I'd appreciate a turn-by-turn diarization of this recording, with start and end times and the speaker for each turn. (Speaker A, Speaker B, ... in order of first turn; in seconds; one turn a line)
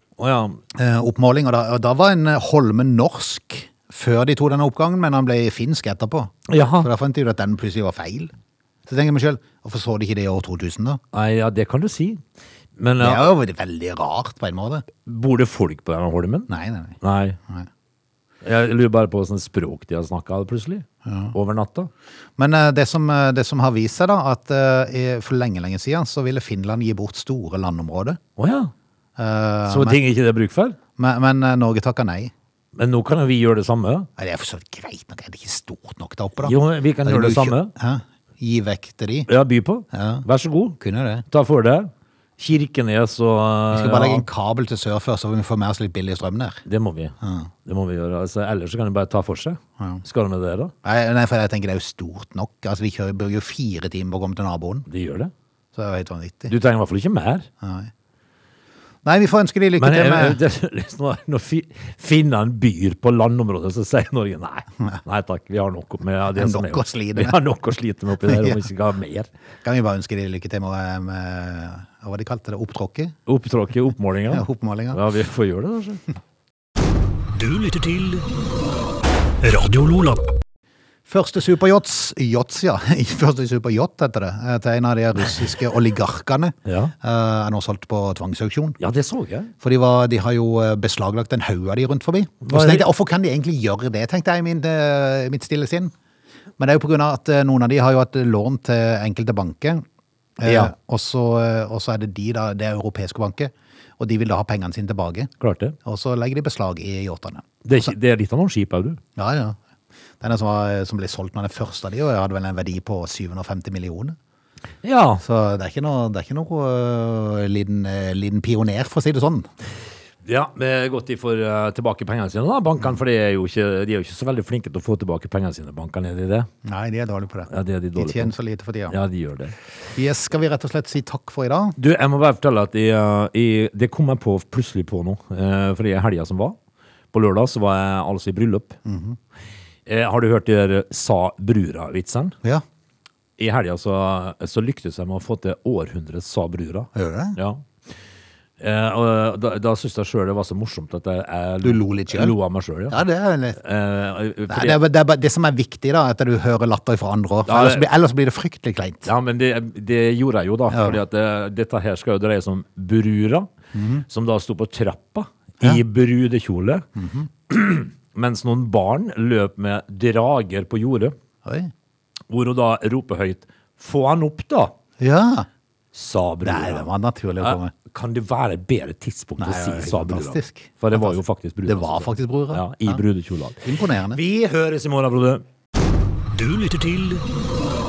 Speaker A: 0.2-0.6
Speaker B: 0.7-8.3
Speaker A: 6.5-6.9
Speaker B: 8.8-11.0
Speaker A: 11.1-12.2
Speaker A: 12.8-13.3
Speaker B: 13.0-14.8
Speaker A: 15.0-16.5
Speaker B: 16.5-17.7
Speaker A: 17.0-17.4
Speaker A: 18.4-21.9
Speaker B: 21.0-21.3
Speaker B: 22.4-28.2
Speaker A: 28.4-28.7
Speaker B: 29.2-30.0
Speaker A: 29.7-30.8
Speaker B: 31.0-32.3
Speaker A: 32.7-34.1
Speaker B: 34.2-39.3
Speaker A: 36.4-37.7
Speaker A: 39.3-40.8
Speaker B: 39.9-40.2
Speaker B: 40.8-41.2
Speaker A: 41.3-44.3
Speaker B: 43.7-46.6
Speaker A: 46.6-47.1
Speaker B: 47.2-47.5
Speaker A: 47.6-50.7
Speaker B: 50.8-54.9
Speaker A: 54.9-55.3
Speaker B: 55.7-56.5
Speaker A: 56.5-57.5
Speaker B: 57.6-57.9
Speaker B: 59.0-60.4
Speaker A: 59.8-69.3
Speaker B: 66.3-67.3
Speaker B: 68.2-68.6
Speaker B: 69.6-73.2
Speaker A: 73.2-76.0
Speaker B: 74.3-75.0
Speaker C: 77.3-78.3
Speaker C: 79.4-80.3
Speaker B: 81.1-88.8
Speaker A: 86.7-86.9
Speaker A: 88.8-89.5
Speaker B: 89.6-95.9
Speaker A: 92.4-92.8
Speaker B: 96.6-99.8
Speaker B: 100.4-105.3
Speaker A: 100.4-100.7
Speaker A: 105.4-105.8
Speaker B: 105.8-107.9
Speaker A: 107.6-109.0
Speaker B: 109.2-109.6
Speaker B: 110.2-114.2
Speaker A: 114.8-115.2
Speaker B: 115.2-119.5
Speaker A: 120.2-126.5
Speaker B: 126.6-128.9
Speaker A: 127.5-128.3
Speaker A: 128.9-129.5
Speaker B: 129.9-131.8
Speaker A: 131.8-136.6
Speaker A: 137.1-138.8
Speaker B: 138.8-139.2
Speaker A: 139.8-142.3
Speaker A: 143.4-147.7
Speaker B: 146.9-147.4
Speaker A: 148.6-153.0
Speaker B: 151.6-152.3
Speaker B: 152.9-153.6
Speaker A: 153.6-154.8
Speaker B: 154.5-159.1
Speaker A: 157.4-157.9
Speaker A: 159.1-163.5
Speaker B: 160.7-161.0
Speaker B: 163.7-164.0
Speaker A: 164.1-166.8
Speaker B: 167.0-167.3
Speaker A: 167.5-171.1
Speaker B: 171.4-171.7
Speaker A: 172.3-174.7
Speaker B: 175.0-175.5
Speaker A: 175.9-176.9
Speaker B: 176.4-177.7
Speaker A: 177.4-185.4
Speaker B: 179.4-183.0
Speaker B: 183.6-184.2
Speaker C: 186.3-187.2